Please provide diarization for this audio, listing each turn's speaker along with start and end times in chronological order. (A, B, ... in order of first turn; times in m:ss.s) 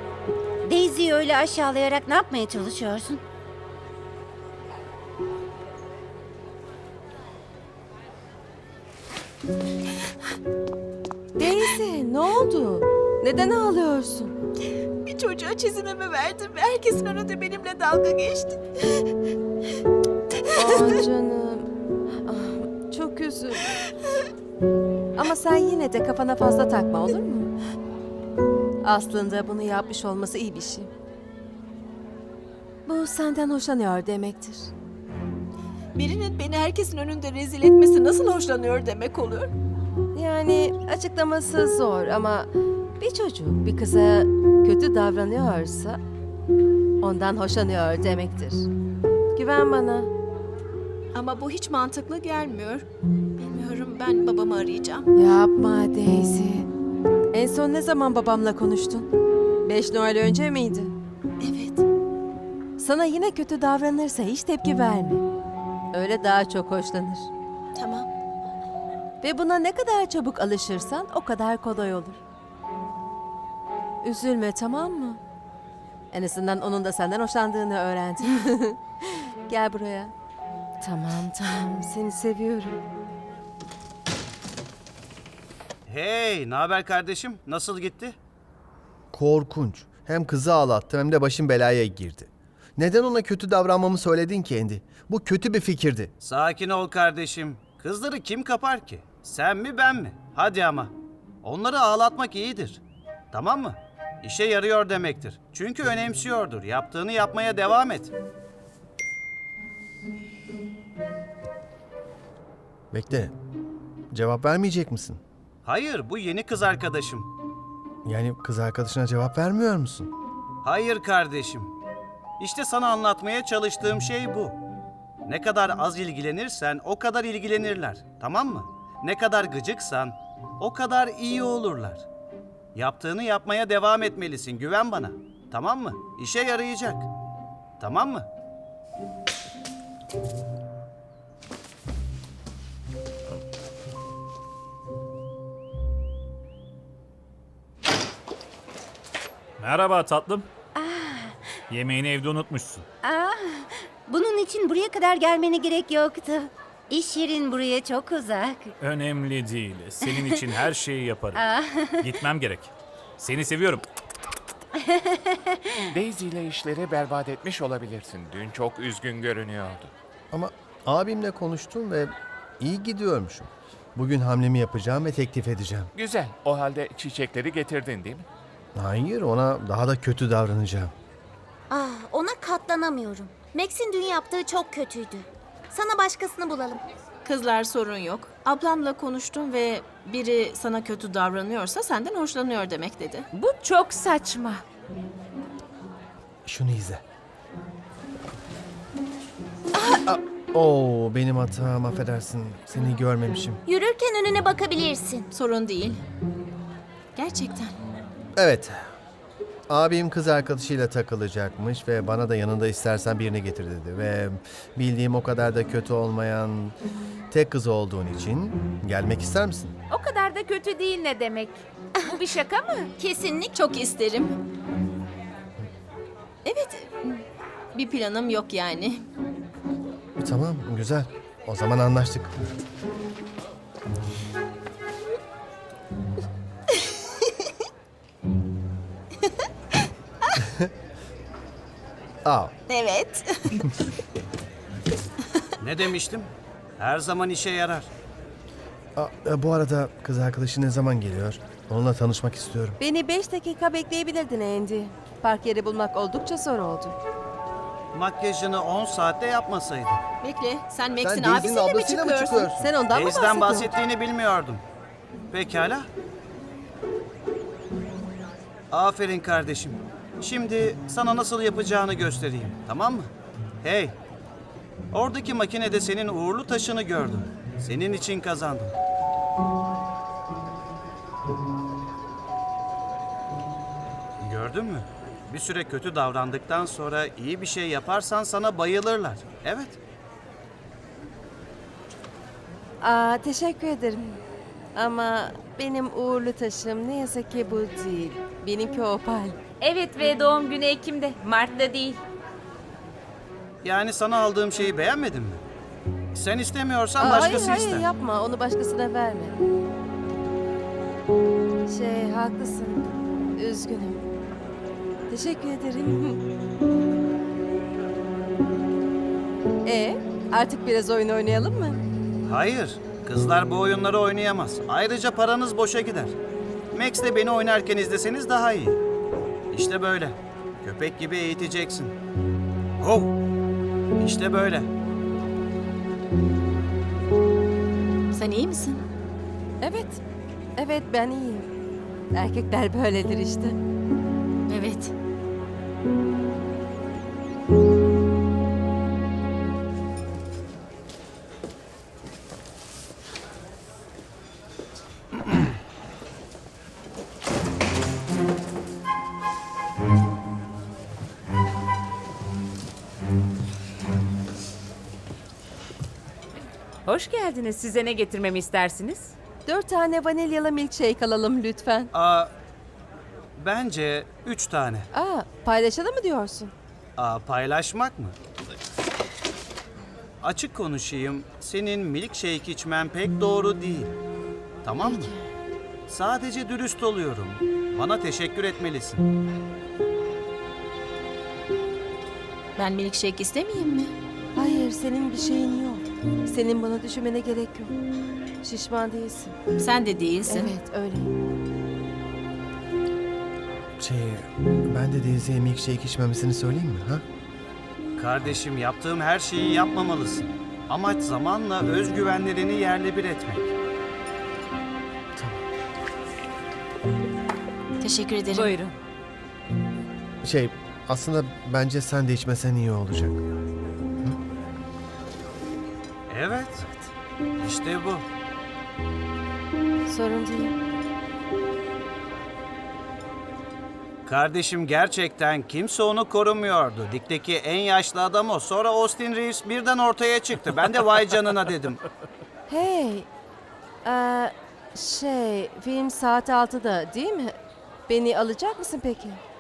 0:00.6-0:03.2 A
0:11.4-0:14.3 B
0:15.1-0:19.0 C
0:20.5-0:23.7 B
0:25.2-0:27.5 B
0:28.8-0:30.9 B
0:32.9-0:34.7 B
0:35.9-0:39.5 C
0:40.2-0:46.0 B
0:47.0-0:48.7 B
0:49.4-0:50.1 B
0:51.1-0:52.9 C
0:53.4-0:55.1 C
0:55.2-0:56.7 B
0:57.3-0:59.1 B
0:59.6-1:01.0 B
1:01.4-1:01.8 C
1:02.8-1:05.2 B
1:05.9-1:07.3 B
1:07.8-1:08.1 C
1:09.2-1:12.2 B
1:14.0-1:15.2 B
1:16.1-1:20.1 B
1:20.8-1:22.8 B
1:25.9-1:28.2 D
1:29.1-1:36.1 E
1:36.2-1:42.8 D
1:43.3-1:48.1 D
1:52.9-1:53.3 E
1:54.1-1:55.2 E
1:55.6-1:57.3 D
1:58.0-2:00.1 E
2:00.6-2:01.7 D
2:02.4-2:04.6 D
2:05.3-2:12.1 D
2:12.8-2:17.1 D
2:17.8-2:18.3 D
2:29.6-2:30.5 F
2:30.8-2:31.4 A
2:31.7-2:32.9 F
2:33.0-2:38.8 A
2:38.8-2:41.5 F
2:40.0-2:40.3 A
2:41.3-2:42.1 A
2:42.0-2:43.8 F
2:44.8-2:45.8 A
2:45.9-2:49.9 G
2:50.3-2:55.9 E
2:56.0-2:58.2 G
2:58.8-3:00.9 E
3:01.7-3:06.8 H
3:07.2-3:13.3 C
3:13.3-3:14.6 I
3:16.4-3:17.0 E
3:20.0-3:23.6 E
3:23.7-3:25.3 H
3:25.3-3:26.0 C
3:27.2-3:27.8 C
3:28.4-3:28.9 E
3:29.7-3:36.8 E
3:37.3-3:39.8 E
3:39.9-3:42.9 I
3:43.0-3:43.5 H
3:43.4-3:44.4 C
3:46.4-3:47.2 C
3:47.7-3:49.0 C
3:50.2-3:52.5 E
4:00.4-4:00.7 E
4:02.2-4:02.5 E
4:02.7-4:03.7 C
4:05.6-4:07.9 D
4:09.0-4:12.8 E
4:12.8-4:17.0 B
4:17.9-4:20.0 D
4:20.2-4:22.5 C
4:21.0-4:22.7 E
4:22.6-4:23.7 B
4:22.9-4:24.6 D
4:25.3-4:25.9 D
4:28.7-4:33.1 D
4:33.6-4:34.0 D
4:34.9-4:38.8 D
4:44.2-4:49.8 D
4:52.8-4:54.2 B
4:54.8-4:59.4 B
4:59.6-5:02.0 I
5:03.6-5:05.4 D
5:06.1-5:07.9 D
5:07.0-5:09.4 B
5:11.7-5:14.0 B
5:15.1-5:16.2 B
5:19.6-5:21.8 B
5:22.2-5:26.2 D
5:26.7-5:28.8 D
5:29.5-5:32.0 D
5:32.8-5:33.2 D
5:34.0-5:34.7 D
5:38.1-5:38.8 C
5:39.6-5:40.0 B
5:40.6-5:41.5 B
5:42.1-5:43.6 B
5:44.5-5:44.9 C
6:06.9-6:09.1 I
6:09.5-6:11.9 B
6:11.9-6:12.3 D
6:13.4-6:14.9 D
6:14.9-6:16.5 B
6:17.0-6:18.2 D
6:20.2-6:24.0 D
6:24.6-6:25.1 D
6:24.8-6:25.2 B
6:25.9-6:29.0 D
6:32.6-6:33.9 C
6:34.4-6:37.7 B
6:38.4-6:39.4 B
6:39.6-6:40.5 C
6:40.3-6:41.1 B
6:43.8-6:47.0 E
6:48.0-6:53.5 D
6:55.2-6:55.4 E
6:57.8-6:58.6 C
6:58.3-6:58.7 I
7:00.2-7:03.2 E
7:06.1-7:06.6 D
7:07.4-7:08.0 D
7:09.9-7:10.6 B
7:14.1-7:21.8 D
7:22.5-7:23.1 B
7:23.8-7:27.4 B
7:27.9-7:29.2 B